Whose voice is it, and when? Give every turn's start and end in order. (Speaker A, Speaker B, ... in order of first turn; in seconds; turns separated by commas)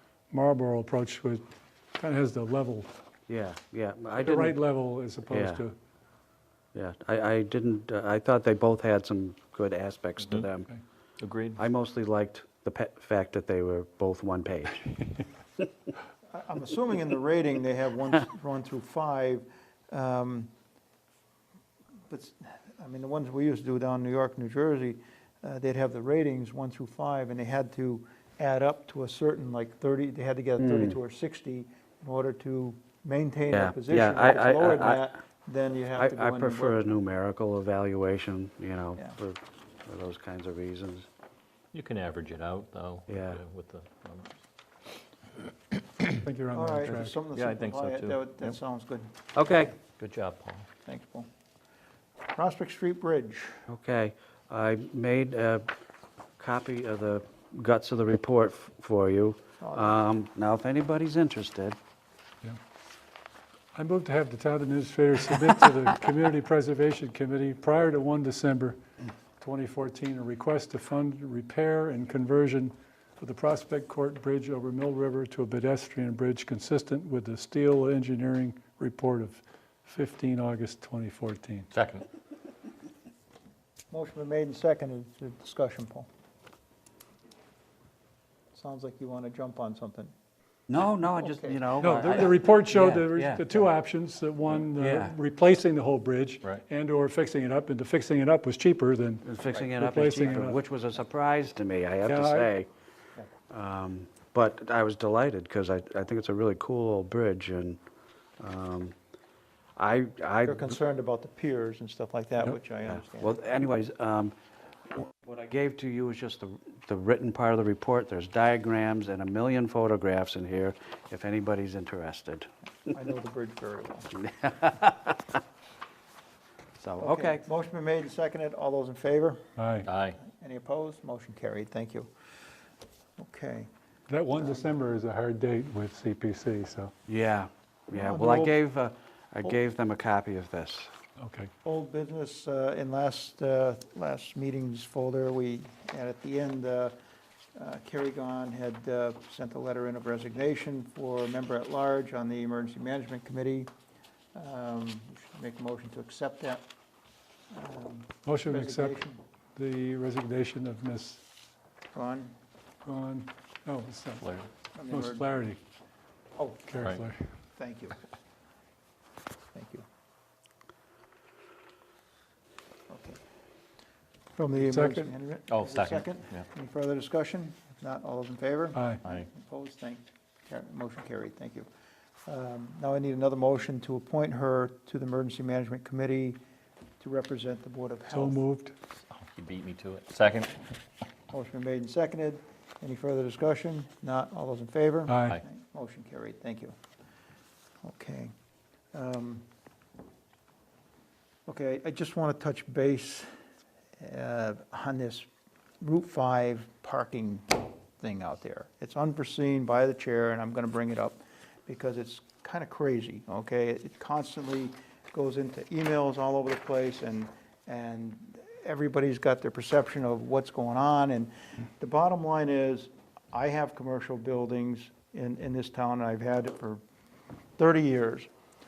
Speaker A: 0.3-1.4, Speaker A: 2.0-2.9, Speaker B: 3.3-4.5, Speaker A: 4.1-5.8, Speaker B: 5.3-5.6, Speaker B: 6.7-10.7, Speaker C: 10.2-10.5, Speaker C: 11.2-11.6, Speaker B: 11.6-14.9, Speaker D: 16.3-20.5, Speaker D: 22.1-36.8, Speaker B: 30.6-31.0, Speaker B: 33.5-35.1, Speaker B: 36.0-41.1, Speaker C: 41.7-44.3, Speaker B: 43.1-43.4, Speaker A: 46.1-47.2, Speaker D: 46.5-49.2, Speaker C: 47.3-48.6, Speaker B: 49.3-49.7, Speaker C: 50.0-50.7, Speaker D: 50.8-51.3, Speaker D: 52.3-53.6, Speaker B: 53.7-55.7, Speaker B: 56.4-61.8, Speaker D: 59.6-60.0, Speaker A: 63.7-68.8, Speaker A: 69.4-81.7, Speaker C: 81.7-82.1, Speaker D: 83.9-86.1, Speaker D: 88.5-90.1, Speaker B: 90.7-93.6, Speaker D: 91.2-92.0, Speaker A: 91.8-100.6, Speaker B: 94.8-95.1, Speaker B: 99.2-102.7, Speaker A: 102.0-102.5, Speaker B: 103.5-107.8, Speaker B: 108.4-108.9, Speaker B: 109.8-110.7, Speaker D: 110.4-113.4, Speaker B: 112.5-114.3, Speaker B: 114.9-122.5, Speaker D: 122.9-124.1, Speaker B: 124.2-125.3, Speaker B: 126.8-127.4, Speaker D: 127.0-129.4, Speaker A: 129.6-129.9, Speaker C: 129.8-130.2, Speaker D: 130.2-132.1, Speaker D: 133.2-133.7, Speaker A: 134.1-136.9, Speaker D: 134.3-134.7, Speaker B: 137.1-140.9, Speaker D: 137.9-138.6, Speaker A: 141.2-141.5, Speaker D: 141.6-146.9, Speaker D: 147.6-153.7, Speaker D: 154.3-156.6, Speaker D: 157.5-159.2, Speaker A: 158.2-159.0, Speaker A: 159.6-161.2, Speaker D: 161.9-162.3, Speaker A: 162.8-164.3, Speaker C: 164.2-164.5, Speaker D: 164.7-165.3, Speaker A: 164.9-165.6, Speaker D: 166.4-166.8, Speaker A: 166.7-167.3, Speaker C: 166.8-167.0, Speaker D: 167.6-168.0, Speaker D: 169.5-169.8, Speaker D: 172.9-173.2, Speaker D: 174.3-181.7, Speaker A: 174.6-175.1, Speaker C: 175.5-176.4, Speaker A: 178.7-179.0, Speaker D: 182.2-186.4, Speaker D: 187.0-188.4, Speaker A: 188.1-188.7, Speaker C: 189.1-190.7, Speaker D: 191.3-196.7, Speaker A: 195.1-195.4, Speaker D: 197.8-198.3, Speaker D: 198.9-199.4, Speaker D: 201.5-203.3, Speaker D: 204.0-205.2, Speaker D: 205.8-226.8, Speaker D: 227.6-228.3